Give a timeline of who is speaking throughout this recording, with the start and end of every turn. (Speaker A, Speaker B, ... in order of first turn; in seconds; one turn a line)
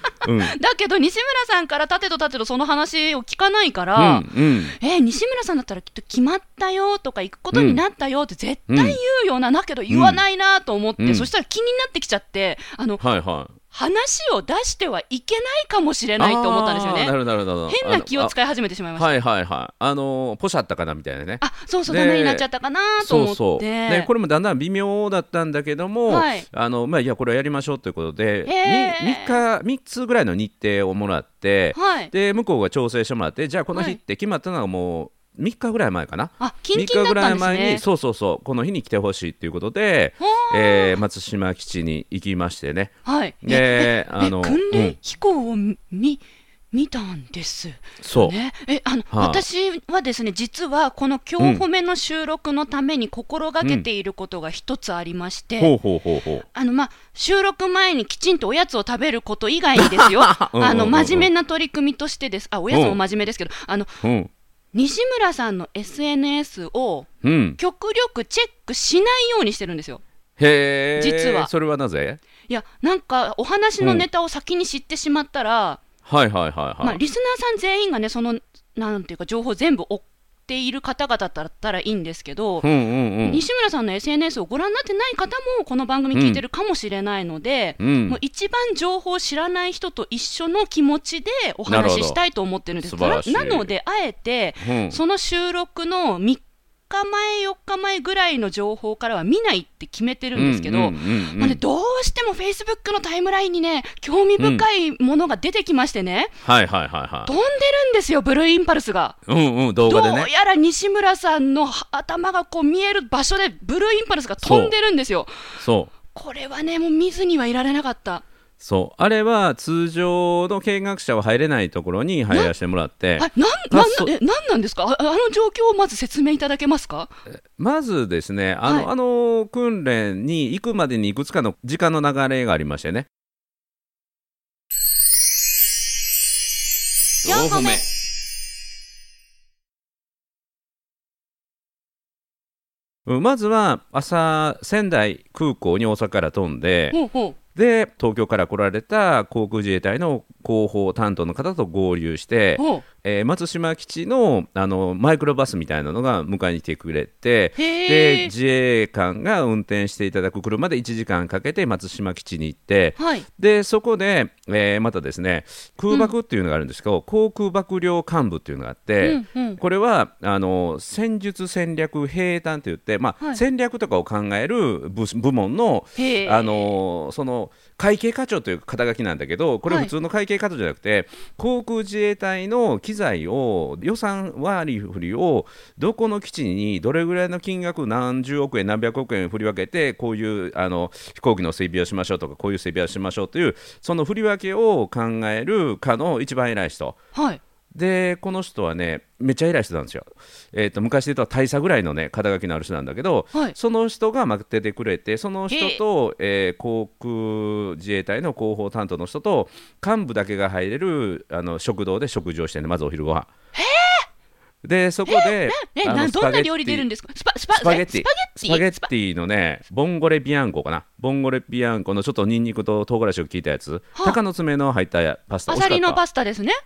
Speaker A: 0.2-0.5
Speaker B: 0.4-13.0
Speaker A: 4.0-4.7
Speaker A: 7.5-7.8
Speaker A: 8.7-9.0
Speaker A: 9.9-10.2
Speaker A: 11.0-11.3
Speaker A: 13.0-13.6
Speaker B: 13.7-17.1
Speaker A: 16.2-18.3
Speaker B: 17.7-19.1
Speaker A: 18.9-22.4
Speaker B: 21.4-24.1
Speaker A: 23.0-45.0
Speaker B: 26.1-26.4
Speaker B: 28.4-29.4
Speaker B: 31.7-32.1
Speaker B: 36.4-37.8
Speaker B: 40.2-41.0
Speaker B: 43.0-55.7
Speaker A: 48.0-48.3
Speaker A: 49.1-49.4
Speaker A: 51.4-51.6
Speaker A: 55.6-56.4
Speaker B: 56.5-64.0
Speaker A: 59.8-61.3
Speaker A: 62.7-63.0
Speaker A: 64.0-64.3
Speaker B: 64.7-70.0
Speaker A: 67.2-67.6
Speaker A: 70.4-72.2
Speaker B: 71.0-71.5
Speaker B: 72.5-75.8
Speaker A: 73.8-74.0
Speaker A: 76.0-77.0
Speaker B: 76.8-82.7
Speaker A: 82.6-83.4
Speaker B: 83.2-106.3
Speaker A: 86.1-86.4
Speaker A: 87.8-88.2
Speaker A: 91.7-92.2
Speaker A: 92.8-93.7
Speaker A: 94.6-95.0
Speaker A: 100.3-101.6
Speaker A: 104.4-104.6
Speaker A: 106.4-107.3
Speaker B: 107.2-109.2
Speaker A: 109.2-110.3
Speaker B: 109.8-115.3
Speaker A: 114.4-114.7
Speaker A: 115.6-115.9
Speaker B: 116.1-118.2
Speaker A: 118.6-124.1
Speaker B: 123.2-127.1
Speaker A: 127.5-133.1
Speaker B: 137.2-137.8
Speaker A: 137.2-137.8
Speaker A: 143.1-147.0
Speaker B: 146.9-147.3
Speaker A: 147.5-197.0
Speaker B: 152.6-152.8
Speaker B: 157.6-158.3
Speaker B: 163.0-163.2
Speaker B: 169.0-169.6
Speaker B: 176.0-176.7
Speaker B: 197.1-197.4
Speaker A: 197.7-213.3
Speaker B: 205.5-205.8
Speaker B: 213.5-214.1
Speaker A: 214.6-216.8
Speaker B: 215.1-218.9
Speaker A: 217.6-226.0
Speaker B: 225.5-226.6